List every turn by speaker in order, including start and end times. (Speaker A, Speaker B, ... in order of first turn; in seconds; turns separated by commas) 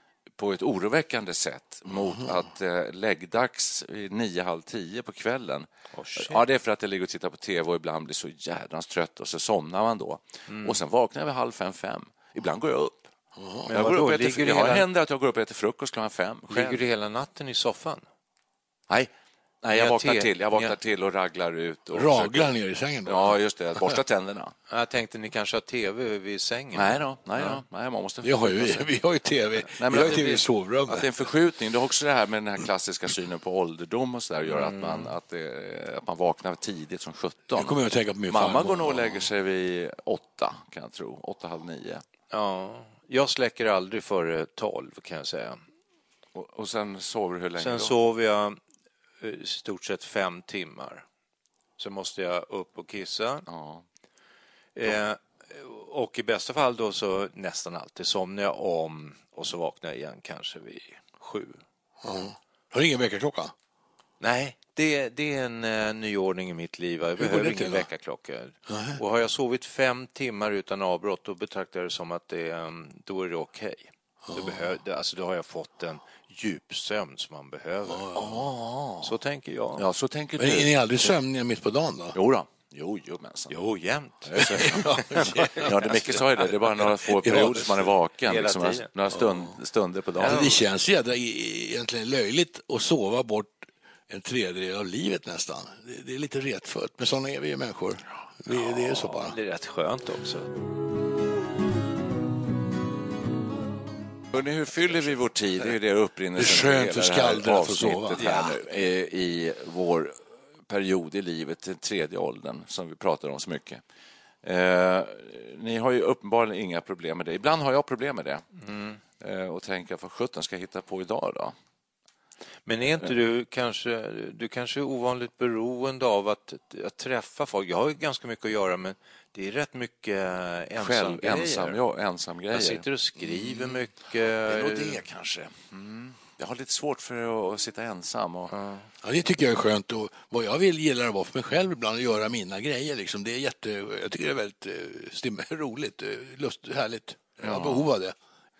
Speaker A: 0.4-13.1, Speaker B: 5.9-6.4, Speaker B: 10.5-10.8, Speaker C: 13.3-13.7, Speaker B: 13.7-14.8, Speaker A: 13.7-16.9, Speaker B: 16.5-18.0, Speaker A: 19.6-22.5, Speaker B: 19.7-20.7, Speaker C: 21.9-24.0, Speaker A: 23.0-24.5, Speaker B: 24.7-27.6, Speaker A: 26.7-28.9, Speaker C: 28.2-31.1, Speaker A: 29.7-37.8, Speaker B: 34.5-35.1, Speaker C: 37.5-39.3, Speaker A: 38.3-42.0, Speaker B: 42.3-45.6, Speaker A: 46.3-47.9, Speaker B: 47.6-48.6, Speaker B: 49.2-51.0, Speaker B: 51.8-53.5, Speaker A: 53.5-53.8, Speaker B: 54.8-61.6, Speaker C: 62.0-63.5, Speaker B: 64.2-78.2, Speaker C: 67.2-67.8, Speaker C: 68.7-69.0, Speaker C: 74.2-74.6, Speaker C: 77.9-78.5, Speaker A: 78.2-79.0, Speaker B: 79.0-79.8, Speaker A: 79.8-80.7, Speaker C: 80.4-82.2, Speaker A: 82.1-83.6, Speaker B: 83.5-86.2, Speaker A: 84.3-84.9, Speaker C: 84.4-86.0, Speaker A: 85.5-90.6, Speaker C: 87.2-87.7, Speaker B: 87.3-87.6, Speaker B: 88.2-88.9, Speaker B: 90.2-90.5, Speaker C: 90.2-99.3, Speaker B: 98.5-100.5, Speaker A: 104.3-113.8, Speaker C: 106.4-108.4, Speaker B: 108.2-108.5, Speaker A: 114.4-118.5, Speaker B: 118.6-119.0, Speaker A: 119.2-121.5, Speaker B: 122.7-131.8, Speaker A: 130.8-132.8, Speaker B: 132.5-135.0, Speaker A: 134.4-135.7, Speaker A: 136.3-138.5, Speaker B: 138.5-138.8, Speaker C: 139.0-148.1, Speaker A: 147.4-147.9